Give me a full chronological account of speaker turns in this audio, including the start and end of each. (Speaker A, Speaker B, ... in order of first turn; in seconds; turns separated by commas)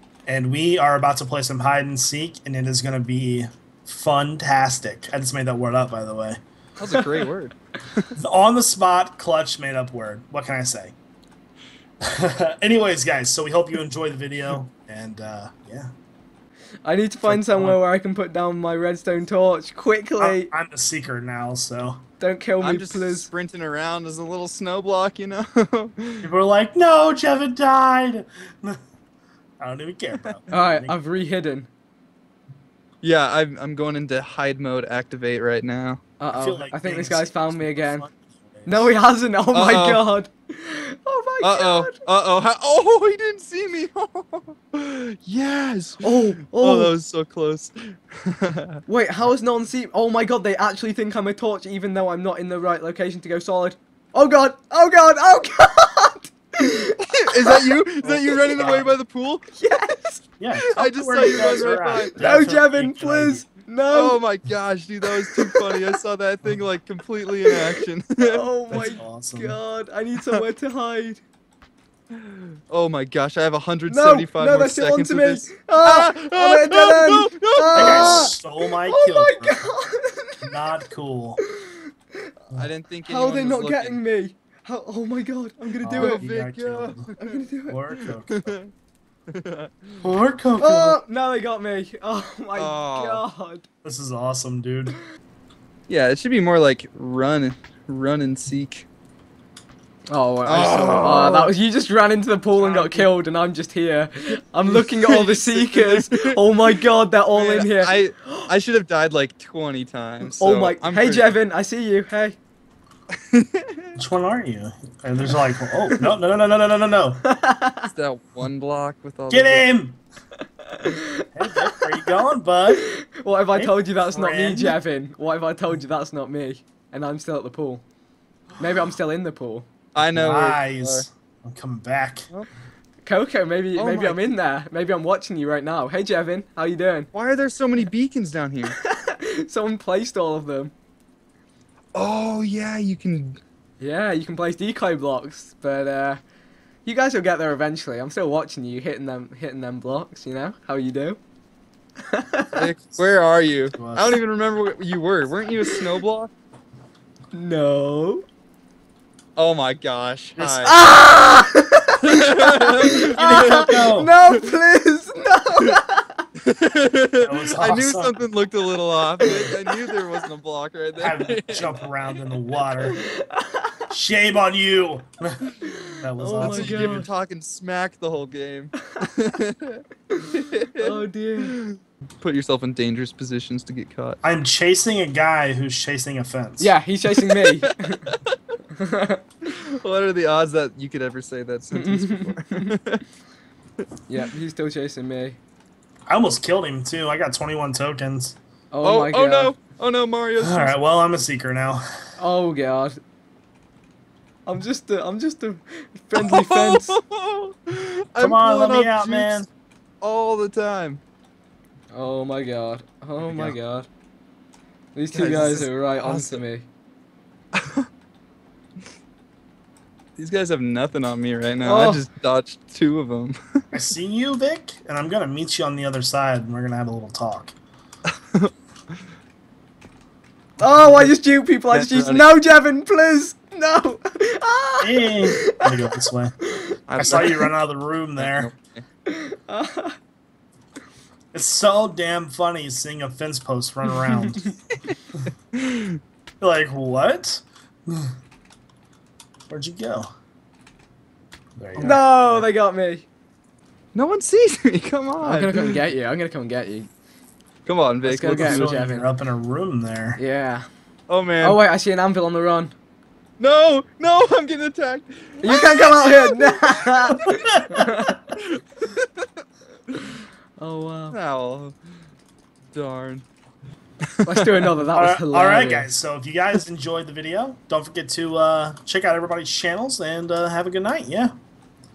Speaker A: 0.3-6.4, Speaker B: 6.8-8.1, Speaker C: 6.9-7.2, Speaker A: 8.2-10.9, Speaker A: 12.1-15.9, Speaker C: 16.8-20.5, Speaker A: 17.2-17.8, Speaker A: 20.2-22.0, Speaker C: 22.2-23.3, Speaker B: 22.6-26.2, Speaker A: 26.2-28.8, Speaker A: 29.6-31.0, Speaker C: 30.5-31.7, Speaker B: 33.0-36.0, Speaker C: 36.2-38.0, Speaker A: 36.3-38.9, Speaker C: 38.6-41.9, Speaker B: 39.5-40.0, Speaker B: 41.4-48.8, Speaker C: 46.0-46.9, Speaker C: 48.9-57.6, Speaker B: 57.1-59.5, Speaker A: 58.0-58.9, Speaker C: 59.5-60.2, Speaker A: 60.4-63.4, Speaker B: 60.8-62.2, Speaker C: 62.1-64.2, Speaker B: 63.9-68.4, Speaker C: 65.2-65.8, Speaker C: 68.2-71.2, Speaker A: 68.7-69.6, Speaker B: 72.1-78.3, Speaker C: 73.9-80.5, Speaker A: 77.7-79.6, Speaker A: 80.4-81.4, Speaker C: 81.5-81.7, Speaker B: 82.5-84.0, Speaker C: 83.0-86.2, Speaker A: 85.8-87.1, Speaker B: 85.9-87.4, Speaker C: 87.2-87.8, Speaker A: 87.7-88.6, Speaker B: 88.3-88.7, Speaker B: 89.3-90.0, Speaker A: 90.0-91.0, Speaker C: 90.6-93.7, Speaker B: 92.5-93.2, Speaker A: 93.8-95.0, Speaker B: 95.9-98.9, Speaker C: 100.1-108.0, Speaker B: 100.5-101.5, Speaker A: 102.6-103.0, Speaker B: 102.7-103.0, Speaker B: 104.6-106.8, Speaker B: 107.3-111.3, Speaker C: 110.2-112.4, Speaker B: 113.3-113.9, Speaker A: 114.0-117.2, Speaker C: 117.3-117.9, Speaker B: 117.8-119.7, Speaker A: 119.3-120.0, Speaker A: 121.3-122.8, Speaker C: 122.7-127.8, Speaker A: 123.5-124.8, Speaker C: 128.6-129.7, Speaker B: 129.9-131.0, Speaker A: 130.1-132.3, Speaker C: 133.1-137.1, Speaker B: 133.8-134.3, Speaker B: 137.1-138.7, Speaker C: 138.7-140.7, Speaker B: 141.9-143.4, Speaker C: 143.8-146.2, Speaker C: 146.8-151.2, Speaker C: 152.1-152.6, Speaker B: 152.5-156.3, Speaker A: 153.8-154.1, Speaker C: 157.3-158.2, Speaker B: 159.3-160.7, Speaker A: 160.4-160.7, Speaker C: 160.6-166.1, Speaker B: 162.0-164.4, Speaker A: 163.1-164.1, Speaker B: 166.4-171.8, Speaker A: 167.2-168.2, Speaker C: 169.3-169.6, Speaker A: 171.0-173.0, Speaker C: 172.8-173.7, Speaker A: 173.9-175.4, Speaker C: 175.7-177.1, Speaker A: 176.0-177.1, Speaker B: 176.4-184.2, Speaker C: 180.1-181.6, Speaker A: 184.2-186.7, Speaker C: 186.6-188.1, Speaker B: 187.1-188.4, Speaker C: 188.8-189.2, Speaker B: 189.5-193.0, Speaker C: 191.7-192.7, Speaker C: 194.1-195.4, Speaker A: 196.1-198.3, Speaker C: 198.7-199.5, Speaker B: 198.8-200.8, Speaker A: 200.4-201.8, Speaker C: 202.2-203.0, Speaker C: 204.4-206.9, Speaker B: 206.2-209.4, Speaker A: 208.2-209.5, Speaker B: 210.0-211.0, Speaker C: 211.9-213.9, Speaker A: 213.2-213.5, Speaker C: 214.9-216.7, Speaker B: 215.1-216.4, Speaker B: 217.5-217.8, Speaker B: 220.2-223.4, Speaker C: 221.6-222.0, Speaker A: 223.7-227.5, Speaker C: 230.6-236.5, Speaker B: 231.7-232.3, Speaker A: 234.8-236.3, Speaker B: 236.9-237.5, Speaker A: 237.0-238.5, Speaker C: 237.1-237.5, Speaker B: 238.2-238.8, Speaker C: 239.1-239.9, Speaker A: 241.3-244.5, Speaker B: 245.5-246.0, Speaker A: 246.4-248.1, Speaker A: 249.5-250.1, Speaker A: 251.6-252.4, Speaker B: 251.7-252.0, Speaker C: 251.8-253.1, Speaker B: 253.9-255.8, Speaker C: 255.2-256.9, Speaker B: 257.6-258.7, Speaker C: 258.0-259.1, Speaker A: 258.3-260.2, Speaker C: 260.2-260.6, Speaker B: 261.1-261.6, Speaker C: 261.4-262.7, Speaker B: 263.4-267.2, Speaker C: 265.4-268.2, Speaker B: 268.3-269.3, Speaker C: 270.6-271.2, Speaker B: 271.1-271.8, Speaker B: 272.7-273.2, Speaker B: 274.2-274.7, Speaker C: 274.2-275.9, Speaker A: 274.9-281.3